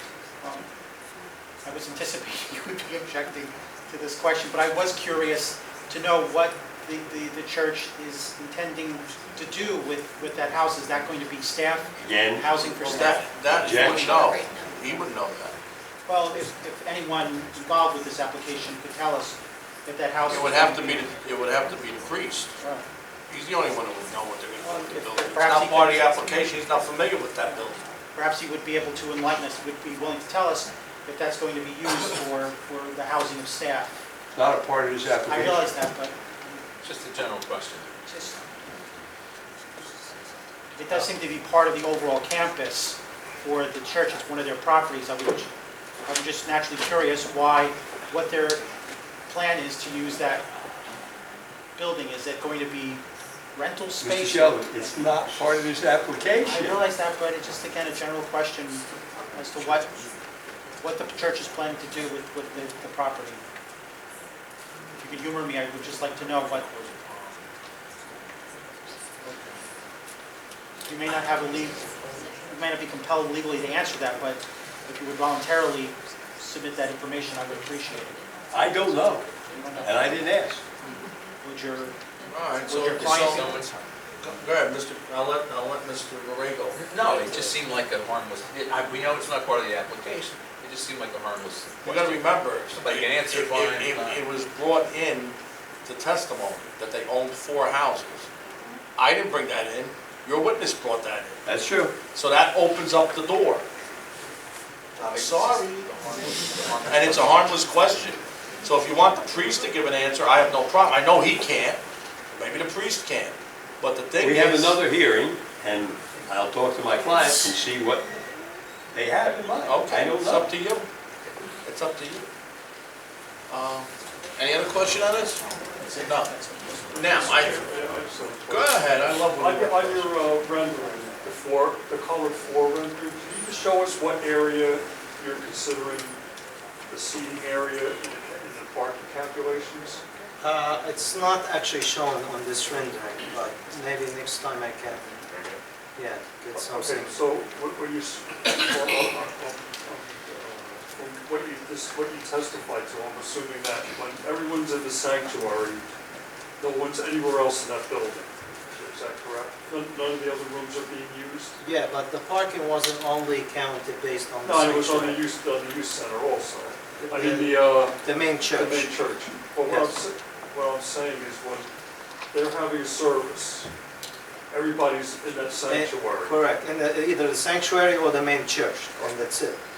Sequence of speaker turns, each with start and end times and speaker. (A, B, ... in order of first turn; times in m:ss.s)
0:00.4-0:00.7 A
0:01.6-0:13.2 A
0:12.0-0:12.5 B
0:12.8-0:15.6 C
0:13.6-0:14.3 B
0:16.1-0:21.1 A
0:20.3-0:22.5 C
0:22.6-0:22.9 A
0:23.3-0:27.8 C
0:24.6-0:25.3 D
0:25.3-0:26.2 A
0:28.1-0:34.0 A
0:34.4-0:35.7 B
0:35.3-0:36.2 A
0:36.8-0:38.0 E
0:38.1-0:38.4 A
0:40.8-0:45.5 A
0:46.1-0:48.6 A
0:49.3-0:50.4 A
0:51.8-0:53.0 A
0:53.5-0:55.4 A
0:54.0-0:56.8 B
0:56.4-1:00.0 A
1:00.8-1:03.4 A
1:05.0-1:06.9 A
1:09.2-1:09.6 C
1:10.9-1:18.2 A
1:18.5-1:19.3 B
1:19.5-1:20.2 A
1:19.8-1:20.6 B
1:21.4-1:22.0 A
1:22.3-1:23.6 C
1:22.7-1:23.5 A
1:22.9-1:23.8 E
1:24.2-1:27.6 C
1:26.8-1:34.2 E
1:31.8-1:38.3 C
1:39.0-1:41.4 C
1:41.5-1:41.9 B
1:42.1-1:43.7 C
1:45.0-1:54.8 C
1:45.0-1:45.4 E
1:45.9-1:47.4 E
1:54.2-1:58.1 B
1:58.9-2:00.5 B
1:59.6-2:00.9 C
2:01.6-2:02.3 C
2:03.5-2:05.4 C
2:05.8-2:07.6 A
2:05.9-2:06.3 C
2:06.9-2:07.7 C
2:07.2-2:16.2 F
2:08.5-2:10.1 C
2:16.9-2:20.0 F
2:20.4-2:25.0 D
2:26.0-2:27.1 D
2:26.5-2:35.8 F
2:36.6-2:41.6 F
2:41.6-2:45.2 D
2:44.4-2:48.0 F
2:47.0-2:48.9 D
2:48.5-2:51.7 F
2:49.7-2:50.0 D
2:52.3-2:53.7 F
2:54.5-2:56.4 F
2:55.7-2:59.6 D